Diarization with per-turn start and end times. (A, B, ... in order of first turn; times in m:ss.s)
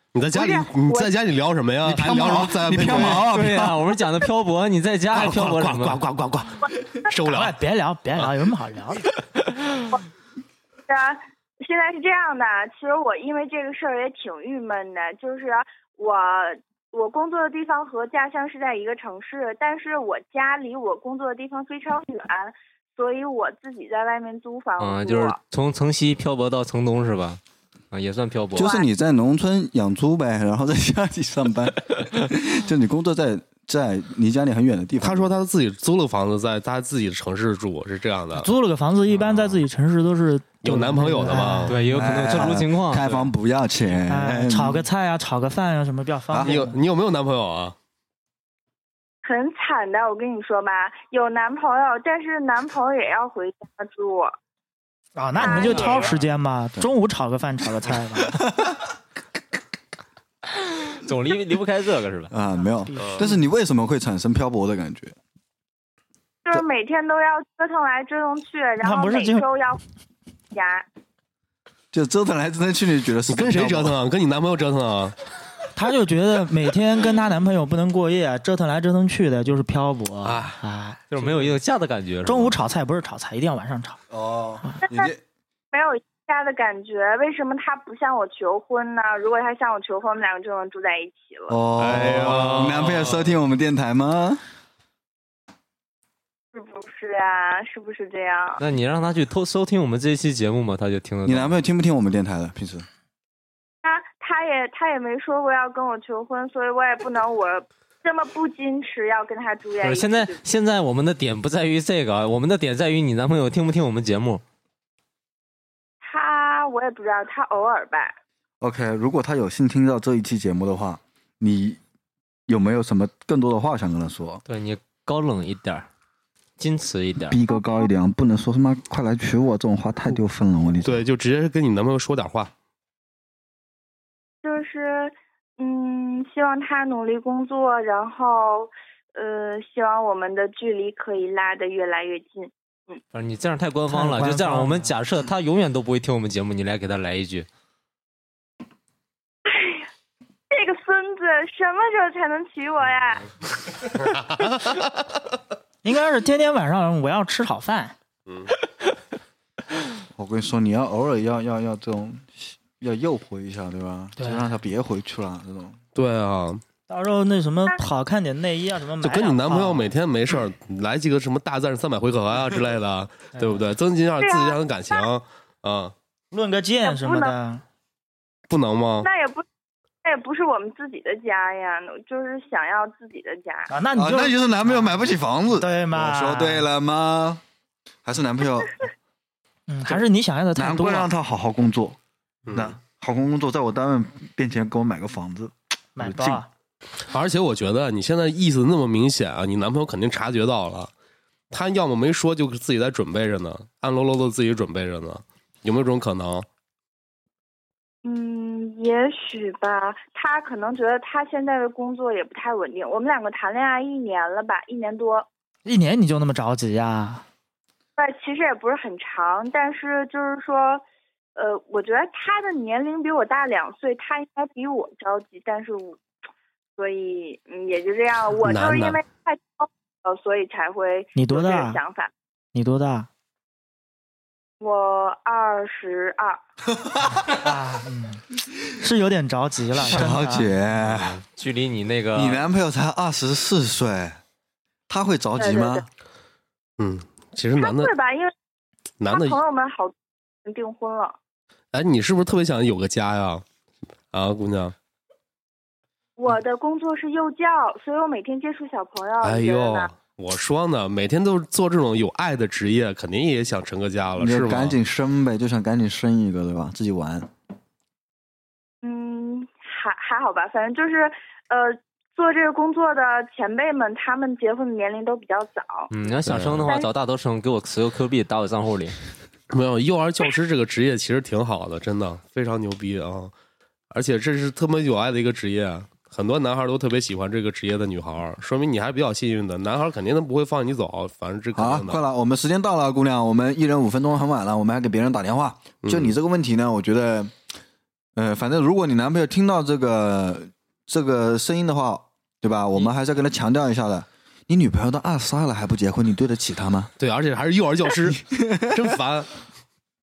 0:00.2-0:03.3 A
0:00.3-0:01.1 B
0:01.8-0:03.8 C
0:02.8-0:06.0 D
0:05.1-0:07.6 A
0:07.2-0:09.0 E
0:10.9-0:25.4 B
0:24.8-0:27.4 D
0:27.9-0:28.7 D
0:28.6-0:35.3 C
0:28.6-0:28.9 B
0:35.0-0:38.5 A
0:38.3-0:42.4 E
0:40.6-0:41.8 A
0:41.7-0:43.2 D
0:41.9-0:44.9 C
0:44.1-0:46.8 E
0:46.3-0:46.6 C
0:46.4-0:47.8 A
0:49.2-0:54.4 B
0:55.2-0:58.4 E
0:55.4-0:56.2 B
0:55.6-0:56.0 A
0:58.4-0:58.7 C
1:01.0-1:02.3 D
1:02.3-1:05.2 C
1:02.9-1:03.4 E
1:06.4-1:09.8 B
1:08.8-1:09.5 E
1:10.5-1:10.9 B
1:11.9-1:14.0 C
1:13.3-1:15.2 A
1:15.8-1:21.3 E
1:20.2-1:20.6 A
1:21.1-1:22.6 D
1:22.2-1:24.0 E
1:24.1-1:25.2 C
1:24.9-1:25.1 B
1:25.7-1:31.6 B
1:31.5-1:34.4 C
1:31.8-1:33.2 A
1:36.5-1:38.6 B
1:38.6-1:41.6 D
1:41.2-1:42.9 C
1:43.8-1:50.4 B
1:49.8-1:54.4 D
1:56.0-1:58.2 B
1:58.6-2:01.8 C
2:02.5-2:04.4 C
2:04.5-2:05.9 D
2:06.6-2:07.4 D
2:07.3-2:11.0 C
2:10.8-2:12.5 A
2:14.4-2:23.0 B
2:23.1-2:27.5 D
2:23.9-2:24.9 E
2:29.5-2:29.9 B
2:30.5-2:33.3 B
2:35.8-2:38.0 E
2:40.2-2:45.8 C
2:44.2-2:44.4 E
2:46.0-2:46.6 A
2:46.9-2:49.9 E
2:49.0-2:55.9 A
2:53.3-2:53.6 E
2:54.2-2:55.1 B
2:56.3-2:57.6 E
2:56.8-2:57.3 B
2:58.5-2:59.1 A
2:59.0-2:59.4 B
3:00.0-3:03.7 B
3:03.7-3:06.7 E
3:03.9-3:07.4 C
3:08.0-3:08.7 C
3:09.7-3:11.1 E
3:10.6-3:12.0 C
3:12.5-3:12.8 A
3:12.5-3:16.4 C
3:16.0-3:16.5 E
3:17.1-3:20.9 A
3:21.5-3:26.5 A
3:28.0-3:35.3 B
3:35.6-3:37.2 E
3:38.0-3:40.8 B
3:41.4-3:46.0 B
3:46.8-3:52.1 B
3:48.4-3:49.0 A
3:51.2-3:51.8 E
3:52.5-3:53.1 E
3:54.6-3:56.4 B
3:57.3-3:58.2 E
3:58.8-4:00.5 E
3:59.8-4:01.2 C
4:00.8-4:02.4 D
4:02.2-4:04.2 C
4:04.9-4:05.8 C
4:05.4-4:05.8 B
4:06.8-4:07.9 A
4:07.6-4:08.3 B
4:09.0-4:09.4 A
4:09.1-4:11.2 B
4:11.7-4:13.4 A
4:14.1-4:14.8 A
4:16.2-4:19.9 B
4:19.2-4:24.8 A
4:24.2-4:27.3 C
4:28.8-4:35.9 B
4:35.9-4:39.0 D
4:36.3-4:36.7 A
4:36.7-4:36.9 B
4:39.5-4:43.3 A
4:43.9-4:52.0 A
4:51.6-4:57.4 C
4:55.8-4:56.1 A
4:58.2-5:06.9 C
5:07.0-5:09.3 A
5:08.3-5:08.8 C